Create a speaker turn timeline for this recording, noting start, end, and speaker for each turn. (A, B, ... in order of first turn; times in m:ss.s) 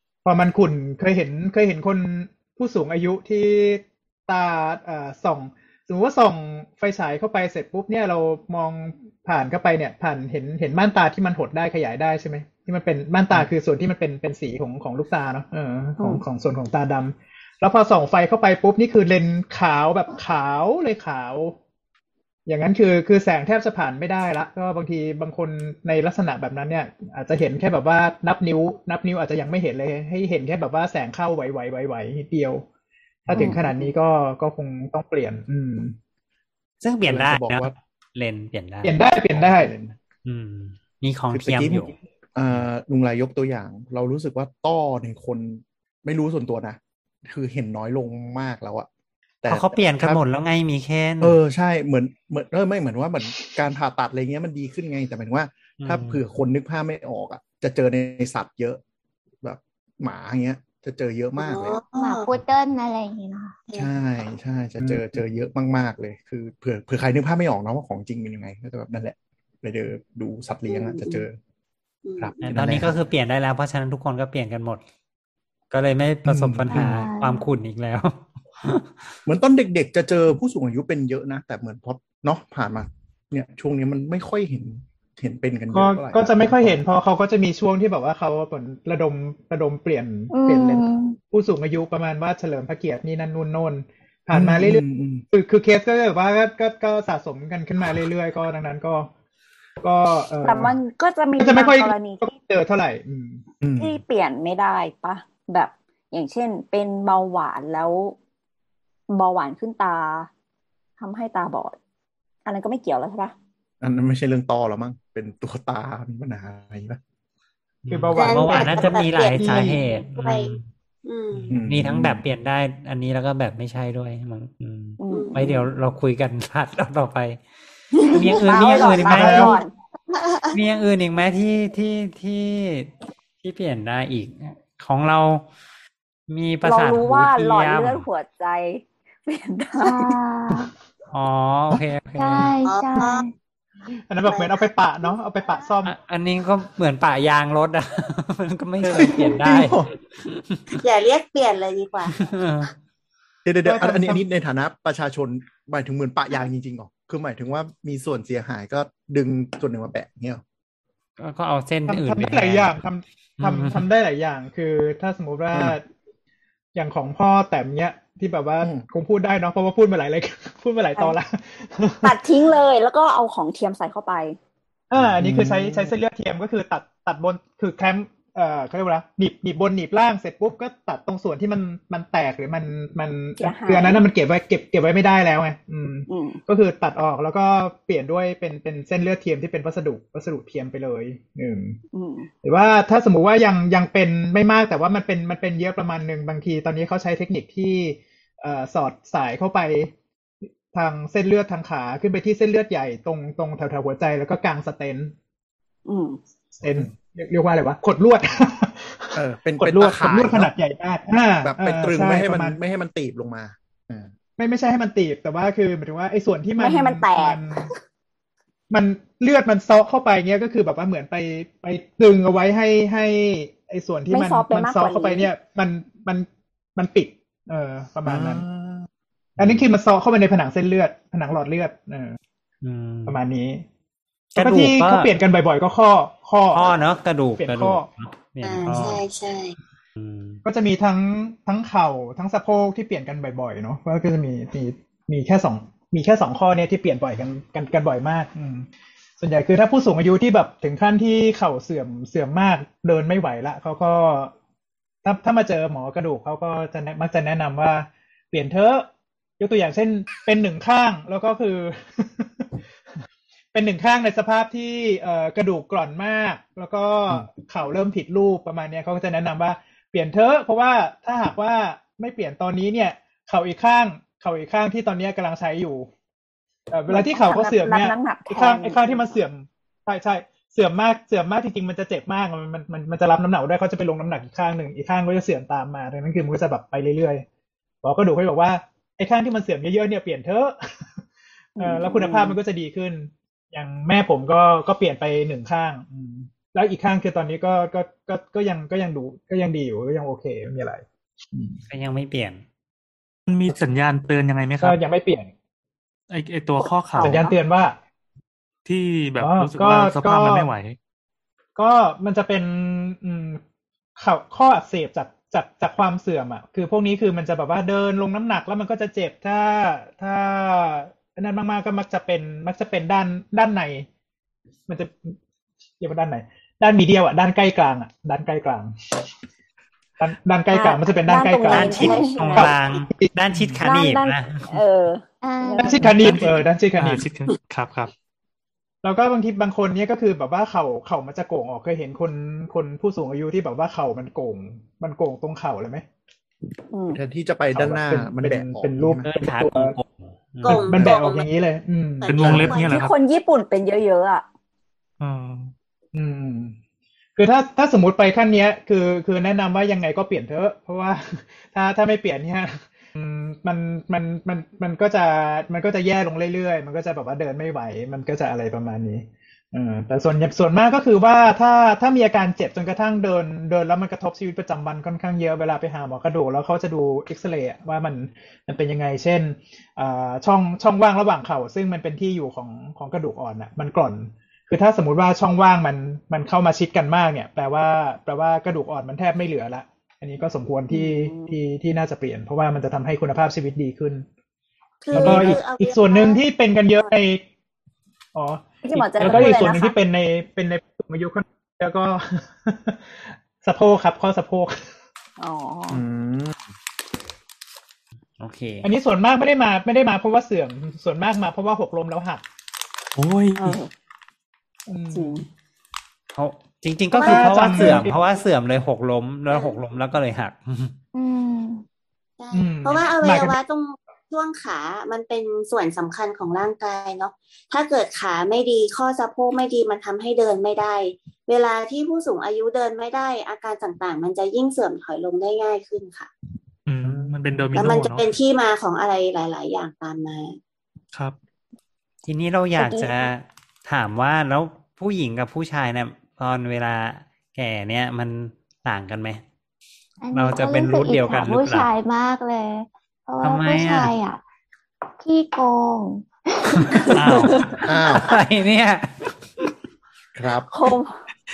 0:00.2-0:21.6 A
0:16.0-0:16.2 B
0:22.5-0:32.6 A
0:33.3-0:36.0 A
0:33.3-0:33.6 C
0:33.4-0:33.7 B
0:36.8-0:38.9 D
0:37.1-0:37.8 E
0:38.8-0:39.7 A
0:39.3-0:40.0 E
0:40.2-0:41.9 D
0:41.3-0:48.9 E
0:49.4-0:50.2 E
0:49.5-0:51.4 D
0:51.2-0:58.8 E
0:55.8-0:56.2 D
0:59.4-1:01.8 E
1:01.4-1:02.3 F
1:02.0-1:03.6 C
1:03.8-1:11.4 E
1:04.8-1:05.1 A
1:10.7-1:11.2 F
1:12.0-1:12.4 F
1:12.2-1:13.0 E
1:12.4-1:14.8 D
1:15.7-1:19.1 D
1:16.3-1:17.0 E
1:16.7-1:17.4 C
1:19.3-1:26.8 E
1:25.7-1:39.1 A
1:30.3-1:31.2 C
1:34.3-1:35.2 E
1:39.8-1:40.8 A
1:40.4-1:42.2 B
1:41.4-1:43.5 A
1:43.6-1:44.0 E
1:43.8-1:48.2 B
1:49.1-1:50.3 B
1:51.0-1:51.8 B
1:52.4-1:53.4 B
1:53.8-1:57.0 E
1:57.8-2:00.7 D
1:57.9-1:59.8 A
1:58.2-2:00.5 F
2:01.0-2:01.6 F
2:01.3-2:07.4 D
2:01.5-2:02.2 E
2:05.0-2:05.4 B
2:05.1-2:05.7 F
2:07.9-2:09.6 D
2:08.1-2:09.7 B
2:08.8-2:09.6 A
2:10.1-2:10.6 F
2:10.5-2:15.4 D
2:16.3-2:18.1 D
2:16.6-2:20.1 B
2:19.8-2:20.7 C
2:21.1-2:22.5 D
2:22.2-2:23.3 C
2:22.6-2:23.2 F
2:24.1-2:25.9 A
2:24.2-2:25.7 F
2:25.8-2:30.8 D
2:28.8-2:29.9 E
2:30.8-2:32.3 F
2:32.2-2:32.7 D
2:33.4-2:40.4 E
2:33.6-2:34.2 A
2:41.2-2:42.7 D
2:41.9-2:45.8 A
2:43.4-2:43.9 D
2:46.8-2:52.2 A
2:52.0-2:54.4 B
2:54.9-3:11.8 A
2:55.0-2:55.9 E
3:03.4-3:04.1 B
3:06.1-3:06.4 B
3:11.9-3:12.3 B
3:12.4-3:19.9 A
3:20.7-3:25.1 A
3:25.9-3:26.2 B
3:26.5-3:32.6 A
3:29.2-3:30.5 E
3:31.4-3:34.1 E
3:34.4-3:37.7 A
3:36.6-3:37.4 B
3:38.7-3:48.5 A
3:44.1-3:45.3 B
3:48.1-3:48.9 E
3:49.4-3:52.2 A
3:52.6-3:53.2 D
3:53.1-3:53.6 A
3:54.4-3:55.1 D
3:54.4-3:56.8 A
3:56.5-3:59.0 D
3:57.4-3:57.9 A
3:58.4-3:59.6 F
4:00.0-4:00.4 D
4:00.4-4:08.7 A
4:09.2-4:14.3 A
4:15.0-4:22.5 A
4:23.5-4:35.9 A
4:36.7-4:47.2 A
4:36.9-4:39.2 B
4:47.8-4:50.6 A
4:51.6-4:52.4 B
4:51.6-5:01.6 A
5:01.7-5:02.4 D
5:03.3-5:04.8 G
5:04.6-5:05.3 A
5:06.1-5:07.2 G
5:06.6-5:07.4 B
5:07.0-5:07.8 A
5:08.6-5:10.8 G
5:09.2-5:10.5 A
5:11.6-5:13.4 A
5:14.0-5:23.9 A
5:24.7-5:25.2 A
5:25.8-5:29.1 A
5:30.0-5:33.1 A
5:30.5-5:32.6 B
5:31.5-5:34.6 D
5:33.6-5:36.1 B
5:35.2-5:35.8 C
5:35.6-5:37.0 A
5:35.9-5:37.9 G
5:38.8-5:45.8 A
5:46.7-5:47.0 B
5:46.9-5:49.0 E
5:47.5-5:49.8 A
5:49.0-5:50.9 D
5:50.4-5:51.3 F
5:50.5-5:52.4 A
5:52.0-5:52.9 F
5:52.1-5:53.0 G
5:52.4-5:54.2 B
5:55.0-5:55.5 G
5:55.9-5:56.6 A
5:57.2-6:34.0 A
6:30.7-6:31.3 B
6:34.8-6:36.9 F
6:34.9-6:37.2 A
6:35.0-6:35.3 E
6:38.1-6:44.6 A
6:38.6-6:39.8 B
6:39.0-6:39.3 E
6:45.2-6:45.8 B
6:45.7-6:46.4 E
6:48.2-6:48.7 D
6:48.6-6:52.2 A
6:53.0-6:53.6 G
6:53.4-6:53.7 B
6:54.7-6:55.2 A
6:54.9-6:55.3 B
6:56.2-7:00.8 D
6:56.9-6:58.0 A
6:57.0-6:57.9 F
6:59.3-6:59.6 F
7:00.9-7:01.7 C
7:02.2-7:16.1 F
7:02.3-7:03.4 A
7:16.7-7:18.2 G
7:16.8-7:17.8 E
7:17.6-7:20.4 F
7:22.0-7:29.2 D
7:22.6-7:23.1 B
7:30.0-7:34.2 C
7:30.1-7:31.7 D
7:33.2-7:33.9 D
7:35.0-7:36.8 C
7:36.6-7:39.1 D
7:36.9-7:37.5 G
7:37.0-7:37.5 B
7:37.7-7:38.2 E
7:40.2-7:40.5 E
7:40.5-7:41.0 B